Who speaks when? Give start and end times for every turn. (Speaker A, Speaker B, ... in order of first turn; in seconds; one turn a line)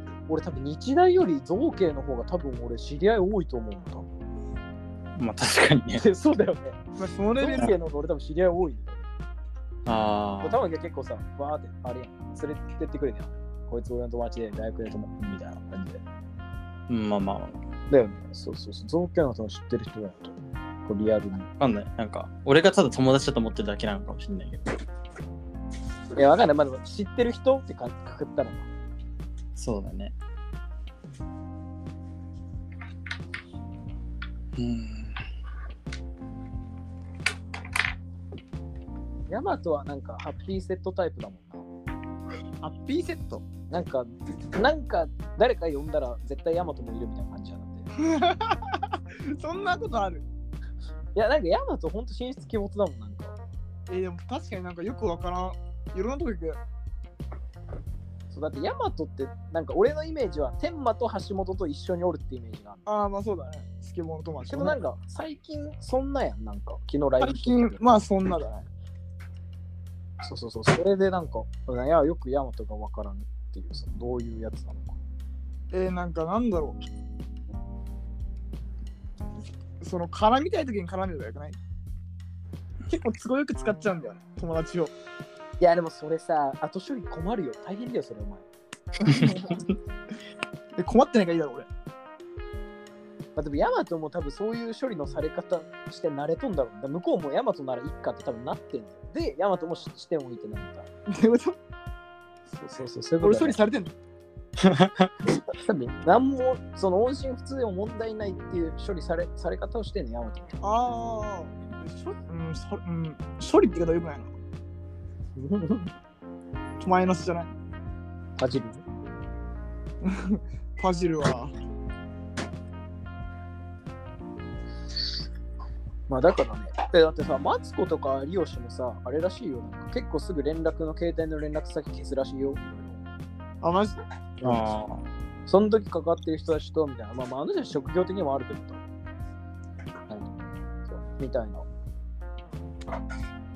Speaker A: 0.3-4.1
Speaker B: 5.2-6.0
Speaker A: 6.0-6.8
Speaker C: 7.0-7.7
Speaker A: 7.4-9.1
Speaker B: 9.9-10.6
Speaker A: 10.4-16.0
Speaker B: 16.9-17.6
Speaker A: 17.9-21.5
Speaker B: 21.6-24.7
Speaker A: 26.2-28.7
Speaker B: 29.6-30.1
Speaker B: 34.6-35.2
Speaker A: 39.3-41.7
Speaker C: 42.6-43.5
Speaker A: 43.7-47.9
Speaker C: 48.0-50.2
Speaker A: 51.1-53.4
Speaker C: 53.9-56.6
Speaker A: 58.3-62.8
Speaker C: 62.9-64.8
Speaker A: 64.5-67.8
Speaker C: 67.2-68.7
Speaker A: 70.2-75.0
Speaker C: 75.7-76.8
Speaker C: 79.8-81.6
Speaker C: 82.9-84.9
Speaker A: 85.6-88.5
Speaker C: 89.0-89.6
Speaker C: 90.8-91.7
Speaker A: 93.4-100.9
Speaker C: 101.1-101.6
Speaker A: 102.5-103.6
Speaker C: 103.2-103.9
Speaker B: 104.6-105.1
Speaker A: 105.5-110.8
Speaker C: 110.6-114.3
Speaker A: 115.4-115.9
Speaker C: 116.8-117.5
Speaker A: 118.4-118.8
Speaker C: 120.0-121.5
Speaker A: 126.1-133.0
Speaker C: 133.6-134.0
Speaker A: 134.4-134.7
Speaker B: 134.4-135.1
Speaker A: 135.5-138.8
Speaker A: 140.9-141.7